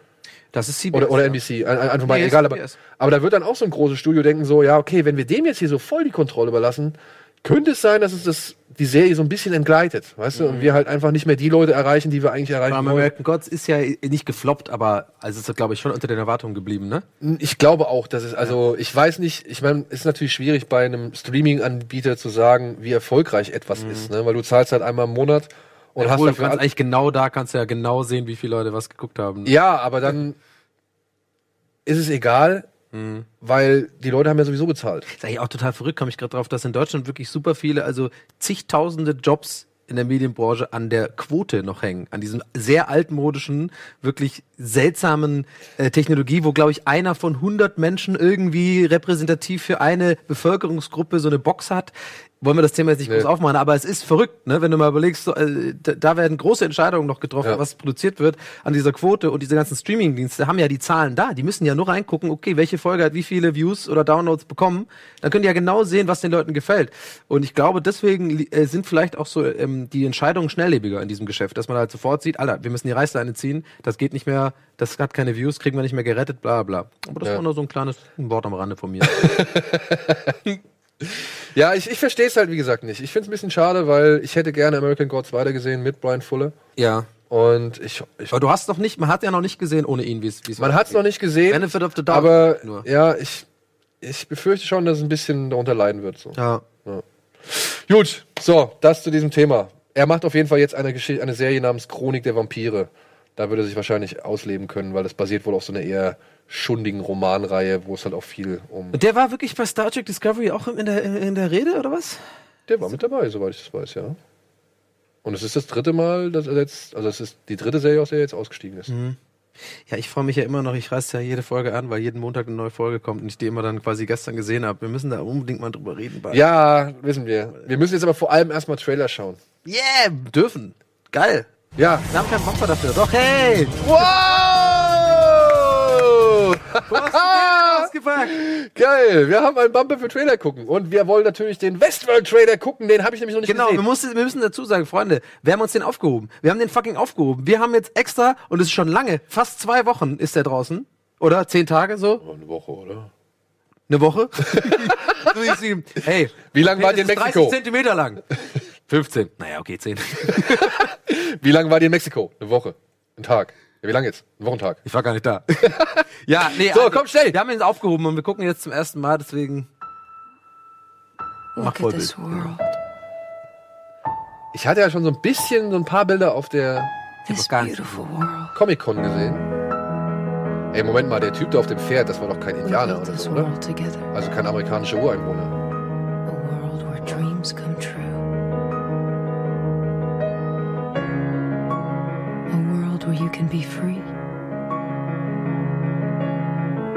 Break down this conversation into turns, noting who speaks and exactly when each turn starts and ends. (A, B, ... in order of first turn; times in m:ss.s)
0:00.5-0:01.4 A
0:00.9-0:13.1 B
0:02.0-0:02.8 A
0:10.3-0:10.7 A
0:12.7-0:17.0 A
0:17.2-0:26.6 B
0:23.7-0:24.1 A
0:26.0-0:29.5 A
0:29.4-0:30.4 B
0:31.8-0:32.7 B
0:32.9-0:33.2 A
0:33.4-0:35.1 B
0:35.1-1:19.3 A
1:19.0-1:20.4 B
1:21.5-1:26.5 B
1:26.8-1:27.1 A
1:27.3-1:28.3 B
1:28.3-1:32.8 A
1:30.6-1:33.4 B
1:34.0-1:49.0 B
1:36.4-1:36.6 A
1:48.9-1:52.2 A
1:52.7-1:54.2 B
1:55.2-1:58.9 B
1:58.9-1:59.2 A
1:59.9-2:06.4 A
2:06.3-2:09.4 B
2:09.6-2:11.5 A
2:11.8-2:12.1 B
2:12.1-2:14.2 A
2:13.8-2:23.8 B
2:16.8-2:18.4 A
2:23.4-2:32.2 A
2:32.2-2:33.1 B
2:33.9-2:38.2 A
2:34.5-2:35.3 B
2:36.5-2:37.6 B
2:38.9-2:40.9 A
2:40.3-2:44.8 B
2:44.8-2:49.7 A
2:45.6-2:47.4 B
2:51.6-2:52.8 C
2:51.6-2:52.5 A
2:54.5-2:56.9 B
2:57.3-2:58.6 C
2:57.3-2:58.0 A
2:58.5-2:59.5 B
3:00.7-3:03.5 B
3:02.6-3:04.1 C
3:04.1-3:05.5 B
3:06.2-3:08.3 C
3:12.5-3:14.1 C